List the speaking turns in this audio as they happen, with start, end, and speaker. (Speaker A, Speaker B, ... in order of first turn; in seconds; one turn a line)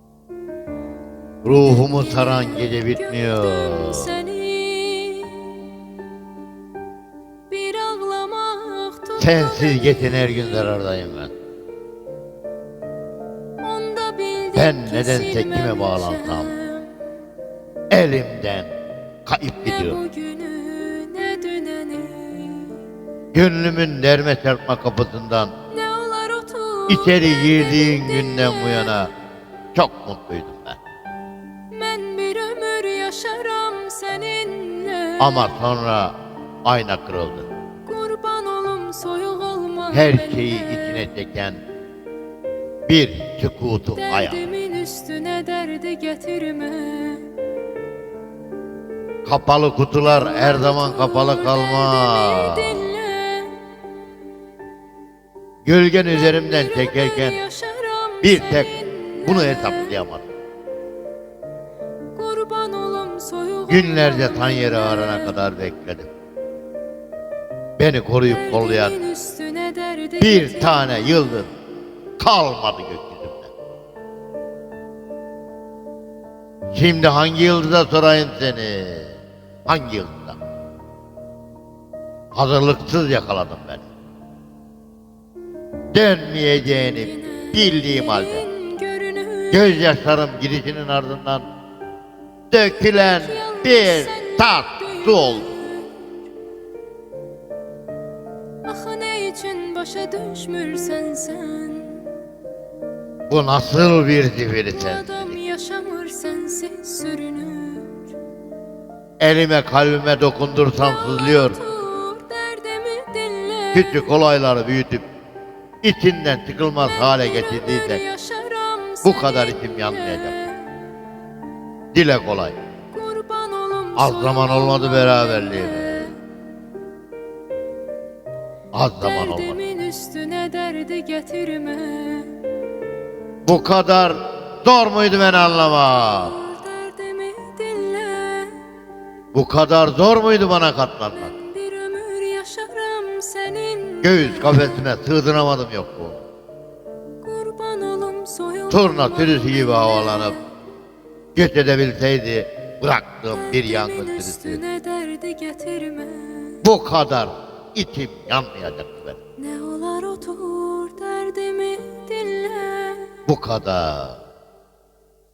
Speaker A: 1.4-4.1
Speaker B: 1.7-5.6
Speaker B: 7.5-10.8
Speaker A: 9.2-11.3
Speaker B: 13.6-16.9
Speaker A: 14.5-16.5
Speaker A: 17.9-18.7
Speaker A: 19.2-20.0
Speaker B: 19.6-22.8
Speaker A: 23.3-25.5
Speaker B: 25.7-29.1
Speaker A: 26.9-29.1
Speaker A: 29.7-30.8
Speaker B: 31.7-35.5
Speaker A: 35.2-37.5
Speaker B: 37.9-41.1
Speaker A: 39.9-41.6
Speaker A: 42.9-44.4
Speaker B: 44.0-47.3
Speaker A: 49.2-52.9
Speaker B: 50.2-53.6
Speaker A: 55.6-57.4
Speaker B: 56.1-60.0
Speaker A: 58.2-60.2
Speaker B: 62.1-65.4
Speaker A: 63.7-66.1
Speaker A: 67.8-69.0
Speaker B: 68.2-71.3
Speaker A: 70.2-71.5
Speaker A: 72.2-73.5
Speaker A: 76.7-80.4
Speaker A: 82.3-83.8
Speaker A: 85.9-88.5
Speaker B: 87.0-89.9
Speaker A: 89.5-91.5
Speaker A: 92.5-95.5
Speaker B: 92.8-95.9
Speaker B: 98.6-102.1
Speaker A: 103.3-105.4
Speaker B: 104.8-108.1
Speaker A: 109.2-111.6
Speaker B: 110.8-114.2
Speaker A: 113.7-115.0
Speaker A: 115.8-118.0
Speaker B: 116.8-120.8
Speaker A: 119.0-120.3
Speaker A: 121.9-122.6
Speaker B: 122.9-126.2
Speaker A: 124.0-126.1
Speaker A: 128.7-129.6
Speaker B: 129.0-132.4
Speaker A: 133.4-136.3
Speaker B: 136.1-138.6
Speaker A: 139.3-141.3
Speaker B: 141.2-144.8
Speaker A: 144.0-146.2
Speaker B: 147.2-150.4
Speaker A: 148.7-150.4
Speaker A: 151.3-154.6
Speaker B: 153.3-156.6
Speaker A: 156.6-159.2
Speaker B: 159.4-163.2
Speaker A: 163.2-164.2